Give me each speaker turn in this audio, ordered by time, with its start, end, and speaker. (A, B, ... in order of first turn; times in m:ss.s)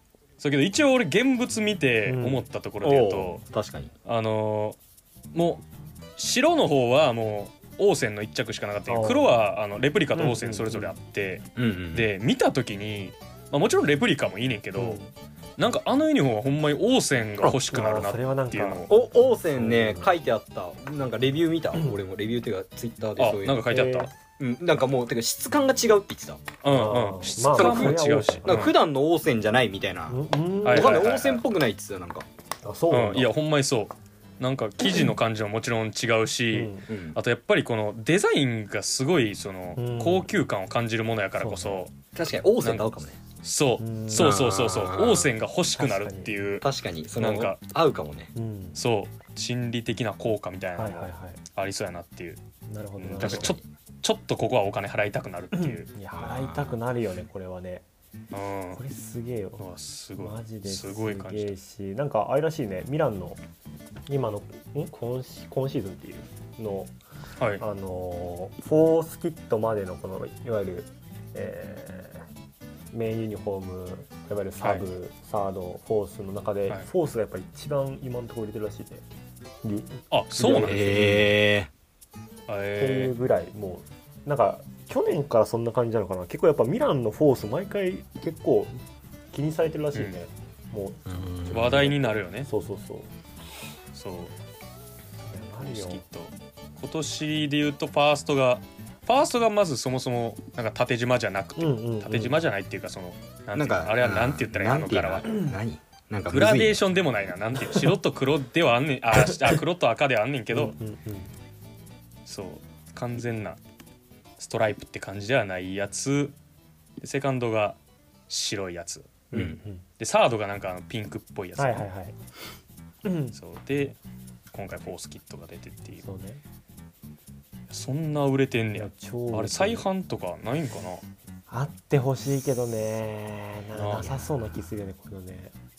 0:00.4-0:03.4 A
0:02.0-0:02.4 B
0:02.8-0:03.9 C
0:04.0-0:04.8 A
0:05.3-0:05.6 A
0:06.2-0:15.0 A
0:08.9-0:09.4 B
0:10.2-0:10.9 B
0:11.6-0:12.1 C
0:14.8-0:15.1 B
0:15.6-0:18.9 A
0:17.7-0:18.9 B
0:18.9-0:23.8 C
0:19.6-0:20.2 B
0:23.2-0:24.1 A
0:23.7-0:24.1 B
0:24.4-0:26.4 C
0:26.6-0:28.8 A
0:26.7-0:28.7 B
0:27.6-0:32.3 C
0:30.1-0:31.1 B
0:30.6-0:31.4 A
0:32.6-0:33.3 B
0:32.9-0:41.9 A
0:36.5-0:36.9 B
0:36.9-0:37.2 C
0:39.8-0:40.3 B
0:41.4-0:41.8 B
0:42.2-0:43.2 C
0:42.6-0:42.9 A
0:43.4-0:46.7 A
0:43.8-0:44.4 B
0:44.2-0:45.3 C
0:45.8-0:46.4 B
0:46.6-0:48.3 C
0:47.2-0:47.6 A
0:48.4-0:48.8 B
0:48.8-0:52.4 A
0:50.8-0:51.4 B
0:52.7-0:53.6 B
0:53.0-0:55.9 A
0:55.5-0:57.8 B
0:56.2-0:56.7 C
0:58.3-0:58.8 A
0:58.7-0:59.6 B
0:59.6-1:01.6 A
1:00.2-1:03.4 B
1:04.1-1:06.9 B
1:07.6-1:12.2 B
1:12.9-1:19.1 B
1:14.6-1:14.9 A
1:19.6-1:21.3 B
1:20.1-1:21.0 A
1:20.4-1:21.7 C
1:22.5-1:23.1 A
1:22.8-1:28.7 B
1:29.3-1:33.1 B
1:31.1-1:31.7 C
1:31.5-1:32.5 A
1:33.9-1:34.3 A
1:35.2-1:36.0 B
1:35.6-1:45.4 A
1:41.6-1:42.4 B
1:43.6-1:46.8 C
1:46.3-1:50.8 A
1:50.5-1:51.3 B
1:52.3-1:53.6 A
1:54.4-1:56.4 A
1:57.0-1:59.3 A
1:59.3-1:59.9 B
1:59.3-1:59.6 C
2:00.0-2:01.9 A
2:01.6-2:02.2 B
2:03.0-2:03.4 B
2:03.3-2:04.0 A
2:04.5-2:06.1 A
2:06.0-2:06.4 B
2:07.7-2:11.0 A
2:08.8-2:09.9 B
2:11.5-2:15.5 B
2:13.8-2:14.3 A